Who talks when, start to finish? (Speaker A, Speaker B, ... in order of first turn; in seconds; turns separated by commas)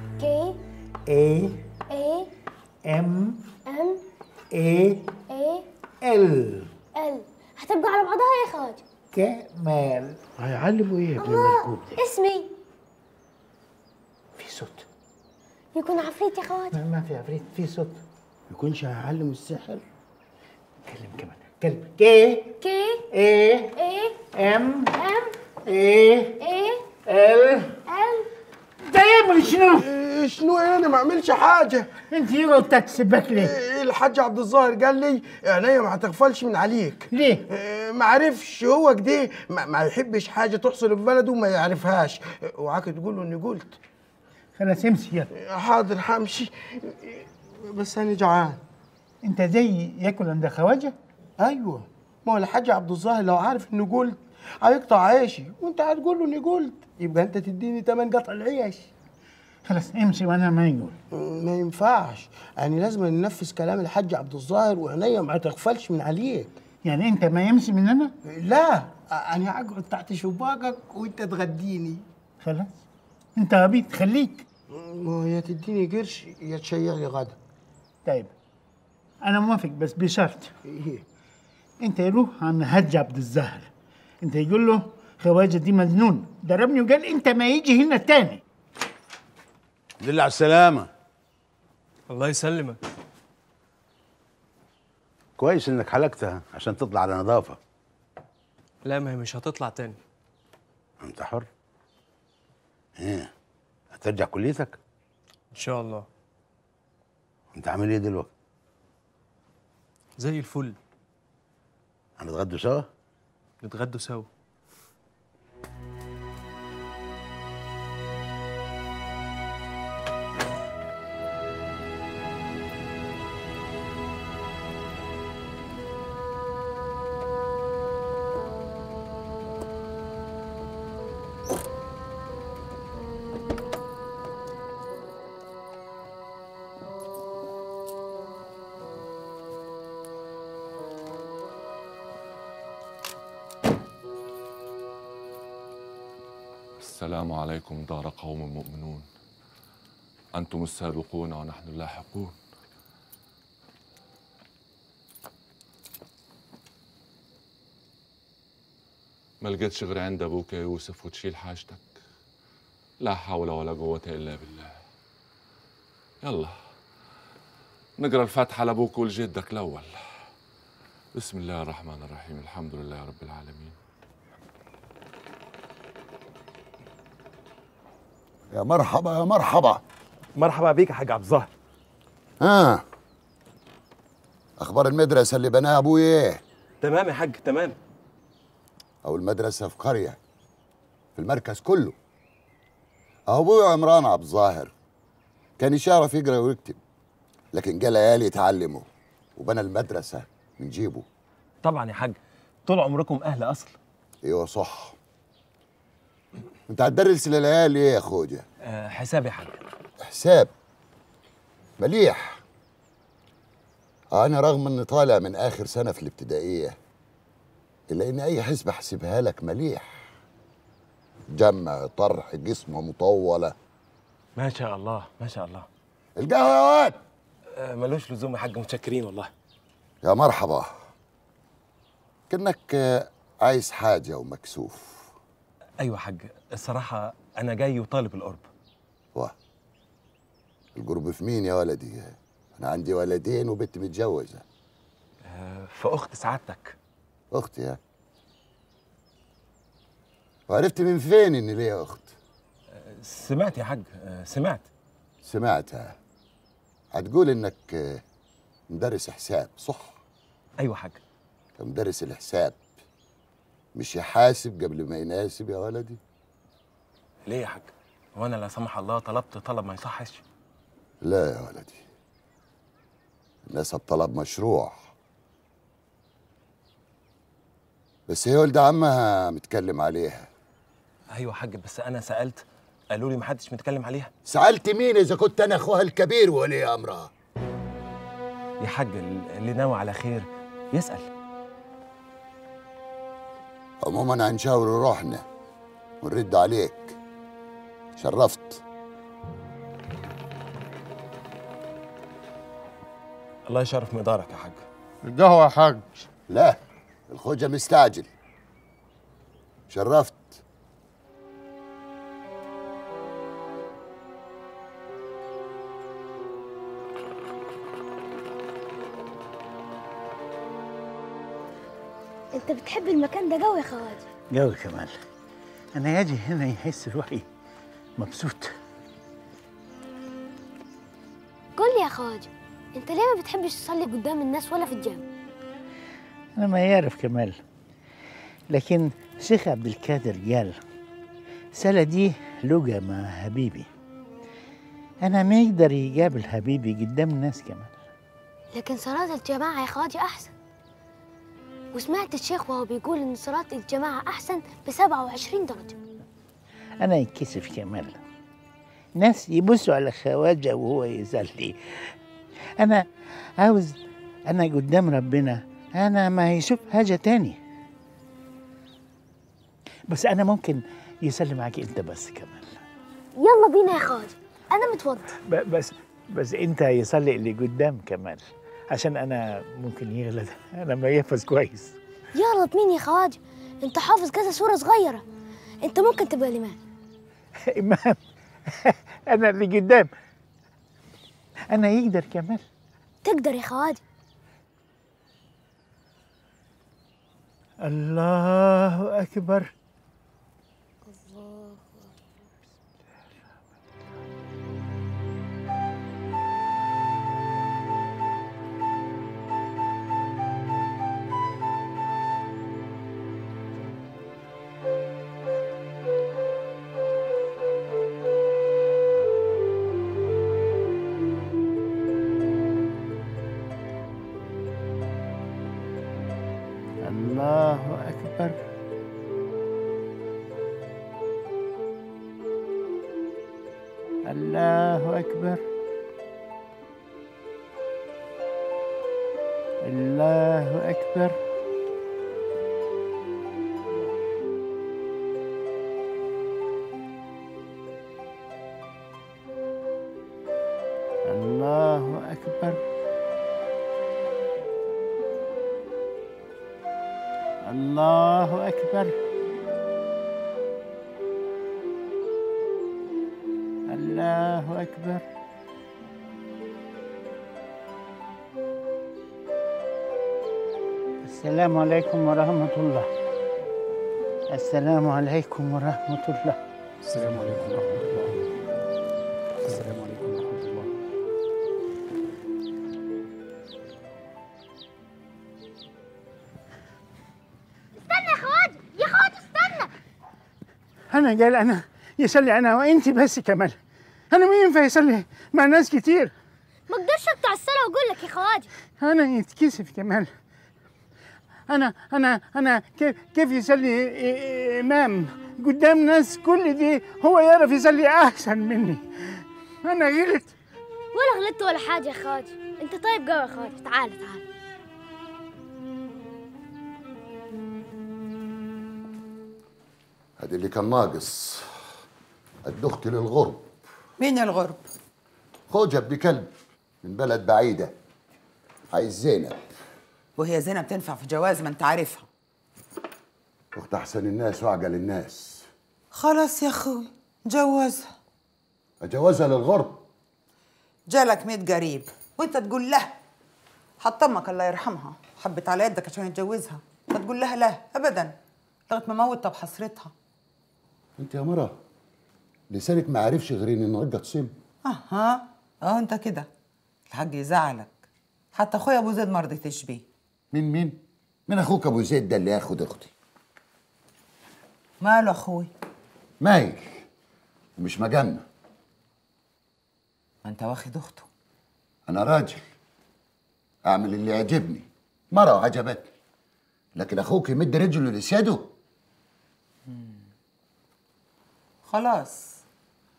Speaker A: 0.2-0.6, Speaker B: 1.1-1.6, Speaker A: 1.9-2.3, Speaker B: 2.9-3.4, Speaker A: 3.6-4.0, Speaker B: 4.5-5.1, Speaker A: 5.3-5.7, Speaker B: 6.0-6.7, Speaker A: 6.9-8.8, Speaker B: 9.1-10.2, Speaker C: 10.4-11.9, Speaker A: 11.2-12.5, Speaker B: 14.4-14.9, Speaker A: 15.7-16.8, Speaker B: 16.7-18.0, Speaker C: 18.5-19.8, Speaker B: 20.9-22.6, Speaker A: 22.6-23.1, Speaker B: 23.1-23.7, Speaker A: 23.8-24.2, Speaker B: 24.4-24.9, Speaker A: 24.9-25.4, Speaker B: 25.6-26.4, Speaker A: 26.4-26.8, Speaker B: 27.1-27.8, Speaker A: 27.9-28.3, Speaker B: 28.9-29.9, Speaker C: 29.8-31.9, Speaker B: 32.1-33.5, Speaker C: 33.4-43.8, Speaker B: 37.1-37.4, Speaker B: 44.6-45.3, Speaker C: 45.4-48.6, Speaker B: 49.2-50.9, Speaker C: 51.4-58.9, Speaker B: 59.7-61.0, Speaker C: 61.1-66.5, Speaker B: 66.8-68.1, Speaker C: 68.2-72.0, Speaker B: 72.4-72.8, Speaker B: 73.3-74.4, Speaker C: 74.7-77.4, Speaker B: 78.0-78.3, Speaker B: 79.2-80.5, Speaker C: 80.7-81.0, Speaker B: 81.8-83.7, Speaker B: 84.2-88.4, Speaker D: 90.0-90.9, Speaker E: 92.1-92.8, Speaker D: 95.4-97.6, Speaker E: 98.8-100.0, Speaker D: 101.0-101.5, Speaker D: 103.0-103.3, Speaker D: 103.9-104.8, Speaker E: 105.5-106.0, Speaker D: 107.5-108.3, Speaker E: 110.2-110.8, Speaker D: 112.2-112.9, Speaker E: 113.6-114.3, Speaker F: 146.8-149.1, Speaker F: 150.3-152.3, Speaker F: 159.4-161.9, Speaker F: 163.0-164.8, Speaker F: 166.2-166.6, Speaker F: 168.0-170.2, Speaker F: 171.1-173.8, Speaker G: 178.5-179.8, Speaker H: 180.4-181.5, Speaker G: 182.4-182.8, Speaker G: 184.6-186.4, Speaker H: 186.8-187.8, Speaker G: 189.0-190.2, Speaker G: 191.2-192.0, Speaker G: 193.3-194.7, Speaker G: 195.6-196.8, Speaker G: 197.5-201.1, Speaker H: 201.6-203.7, Speaker G: 204.2-205.0, Speaker G: 206.7-208.4, Speaker H: 208.6-209.6, Speaker G: 210.0-210.5, Speaker G: 211.8-212.4, Speaker G: 214.1-216.8, Speaker G: 217.9-220.0, Speaker G: 221.3-223.6, Speaker H: 224.4-225.7, Speaker G: 226.2-227.0, Speaker H: 227.5-229.3, Speaker G: 230.0-230.7, Speaker G: 232.3-235.1, Speaker H: 235.8-238.5, Speaker G: 240.7-244.4, Speaker H: 245.2-246.8, Speaker G: 247.3-247.8, Speaker G: 250.5-252.1, Speaker H: 252.7-254.7, Speaker G: 255.2-255.9, Speaker G: 256.9-258.0, Speaker G: 258.7-260.0, Speaker H: 260.6-261.0, Speaker G: 261.6-262.6, Speaker G: 263.7-266.0, Speaker H: 267.3-270.2, Speaker G: 271.0-271.8, Speaker G: 273.4-274.9, Speaker G: 278.1-280.3, Speaker H: 281.1-284.1, Speaker G: 284.3-287.1, Speaker H: 288.6-291.1, Speaker G: 293.8-295.2, Speaker G: 296.0-297.0, Speaker G: 298.0-298.6, Speaker H: 303.4-304.6, Speaker C: 305.1-305.8, Speaker G: 306.3-308.1, Speaker G: 309.7-310.4, Speaker A: 322.3-324.1, Speaker B: 324.3-324.9, Speaker B: 325.7-327.2, Speaker B: 328.0-328.5, Speaker A: 331.6-335.0, Speaker B: 336.4-337.4, Speaker B: 338.5-340.6, Speaker B: 341.6-343.7, Speaker B: 345.0-347.8, Speaker A: 348.5-350.3, Speaker A: 351.7-355.8, Speaker B: 356.8-358.0, Speaker B: 359.0-361.6, Speaker B: 362.6-362.8, Speaker B: 363.4-363.8, Speaker B: 364.3-367.4, Speaker B: 369.9-372.6, Speaker A: 373.2-375.1, Speaker B: 375.3-381.8, Speaker A: 382.1-385.0, Speaker A: 385.6-386.6, Speaker B: 387.5-388.0, Speaker B: 388.5-389.9, Speaker B: 391.5-392.4, Speaker A: 393.0-393.8, Speaker B: 397.6-399.5, Speaker A: 400.8-402.1, Speaker B: 426.8-428.4, Speaker B: 434.1-435.4, Speaker B: 439.6-441.1, Speaker B: 451.1-452.6, Speaker B: 457.4-458.9, Speaker B: 463.7-465.0, Speaker B: 471.0-472.9, Speaker B: 474.3-478.1, Speaker B: 479.4-480.6, Speaker A: 487.9-489.7, Speaker B: 490.9-493.6, Speaker B: 494.1-496.1, Speaker A: 496.7-498.5, Speaker B: 498.8-500.1, Speaker B: 501.5-510.3, Speaker A: 510.9-514.2, Speaker G: 520.2-521.5, Speaker G: 522.5-523.5, Speaker I: 524.0-524.6, Speaker G: 525.5-526.3, Speaker G: 526.8-527.7, Speaker G: 528.7-529.5, Speaker I: 530.1-532.1, Speaker G: 533.5-535.5, Speaker I: 535.9-537.9, Speaker G: 538.8-539.8, Speaker I: 540.9-542.9, Speaker I: 543.8-548.1, Speaker I: 548.7-549.9, Speaker G: 551.0-551.6, Speaker G: 552.5-554.3, Speaker I: 554.6-556.3, Speaker I: 556.9-557.8, Speaker I: 558.3-559.9, Speaker G: 560.3-562.9, Speaker I: 564.8-565.5, Speaker G: 566.2-566.8, Speaker G: 567.6-568.2, Speaker I: 570.2-571.1, Speaker G: 571.9-572.4, Speaker G: 573.6-575.9, Speaker G: 576.8-578.5, Speaker I: 581.6-582.4